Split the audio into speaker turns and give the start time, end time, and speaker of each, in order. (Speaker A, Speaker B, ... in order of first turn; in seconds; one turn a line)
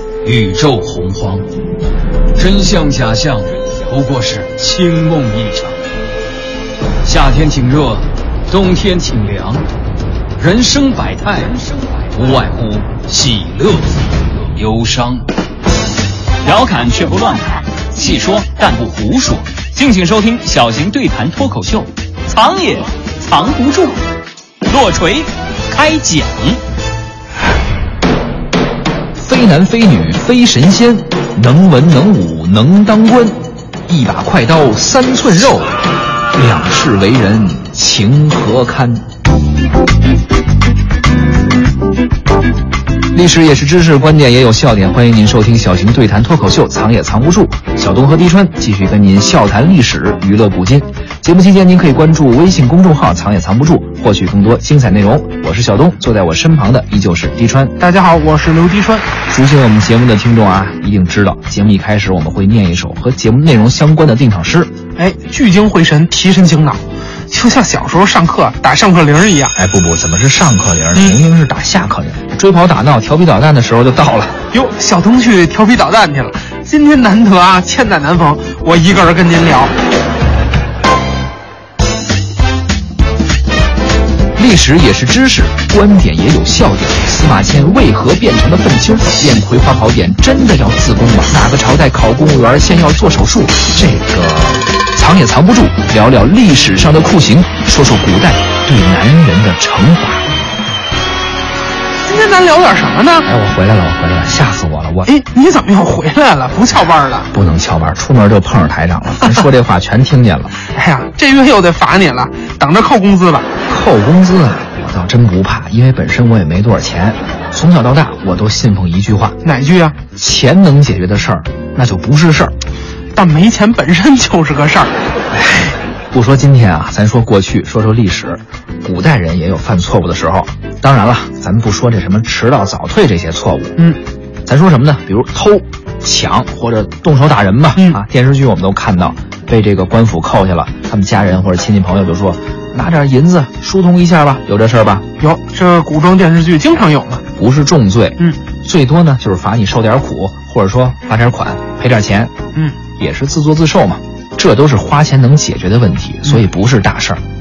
Speaker A: 0.2-1.4
Speaker A: 2.3-5.8
Speaker A: 7.0-9.6
Speaker A: 10.4-15.2
Speaker B: 16.4-24.0
Speaker B: 24.6-26.6
Speaker C: 29.2-35.8
Speaker C: 36.3-39.0
Speaker C: 43.1-57.8
Speaker D: 57.8-59.0
Speaker C: 59.3-64.7
Speaker D: 65.0-69.5
Speaker C: 69.5-74.4
Speaker D: 74.5-79.7
Speaker C: 84.3-100.3
Speaker D: 102.0-103.3
Speaker C: 103.2-105.1
Speaker D: 105.0-107.3
Speaker C: 107.3-110.5
Speaker D: 110.7-113.5
Speaker C: 113.7-119.4
Speaker D: 119.4-120.0
Speaker C: 120.2-122.5
Speaker D: 123.1-125.0
Speaker C: 125.3-133.8
Speaker C: 134.4-145.0
Speaker D: 137.7-138.0
Speaker D: 145.2-147.2
Speaker C: 147.4-152.3
Speaker C: 152.9-157.2